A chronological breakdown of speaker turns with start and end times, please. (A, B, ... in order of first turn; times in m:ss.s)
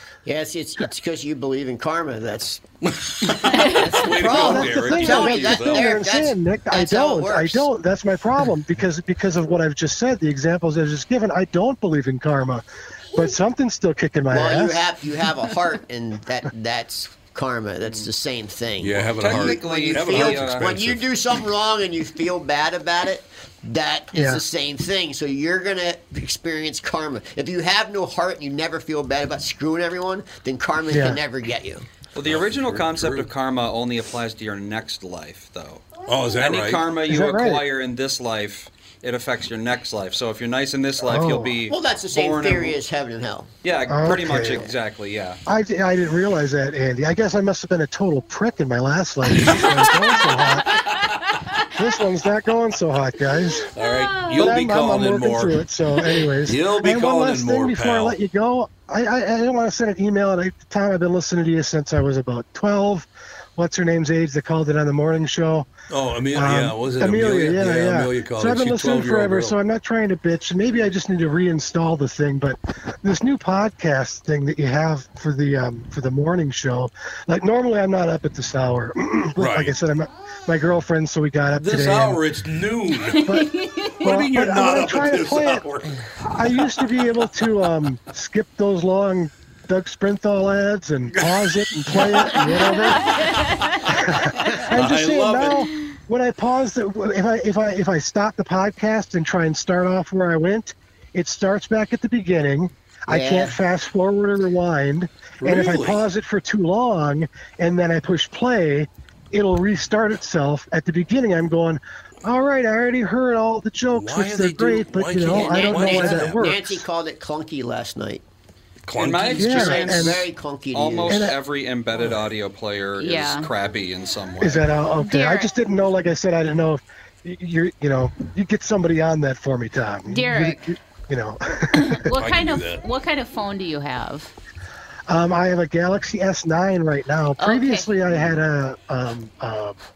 0:00.2-0:02.6 A
0:02.9-0:06.0 B
0:03.2-0:07.7 A
0:04.2-0:14.9 C
0:14.3-0:31.9 A
0:18.8-0:21.1 B
0:19.2-0:20.6 D
0:24.1-0:24.4 C
0:30.9-0:31.2 C
0:32.1-0:42.8 D
0:32.2-0:33.3 B
0:36.0-0:36.9 B
0:37.0-0:37.7 C
0:41.0-0:41.6 C
0:41.6-0:43.5 A
0:43.6-0:45.4 D
0:43.9-0:44.7 C
0:45.4-0:50.7 C
0:51.8-0:53.7 C
0:53.7-0:58.2 B
0:54.2-1:05.7 C
1:05.9-1:09.6 B
1:06.3-1:22.2 C
1:19.4-1:19.7 B
1:21.6-1:23.4 B
1:23.1-1:23.5 C
1:24.0-1:26.0 B
1:24.0-1:25.7 C
1:26.3-1:33.2 C
1:31.1-1:32.1 B
1:33.1-1:33.5 B
1:33.9-1:56.8 C
1:34.7-1:35.6 B
1:43.1-1:43.6 A
1:45.4-1:46.0 B
1:53.9-1:56.5 B
1:55.3-1:58.2 A
1:58.9-2:00.0 B
1:58.9-2:04.8 D
1:59.4-2:00.2 C
1:59.4-2:01.3 A
2:01.1-2:01.4 C
2:03.0-2:03.5 E
2:04.4-2:12.0 C
2:05.0-2:05.5 E
2:10.1-2:10.6 E
2:11.7-2:14.3 E
2:12.2-2:12.8 B
2:15.1-2:19.8 C
2:17.4-2:17.9 E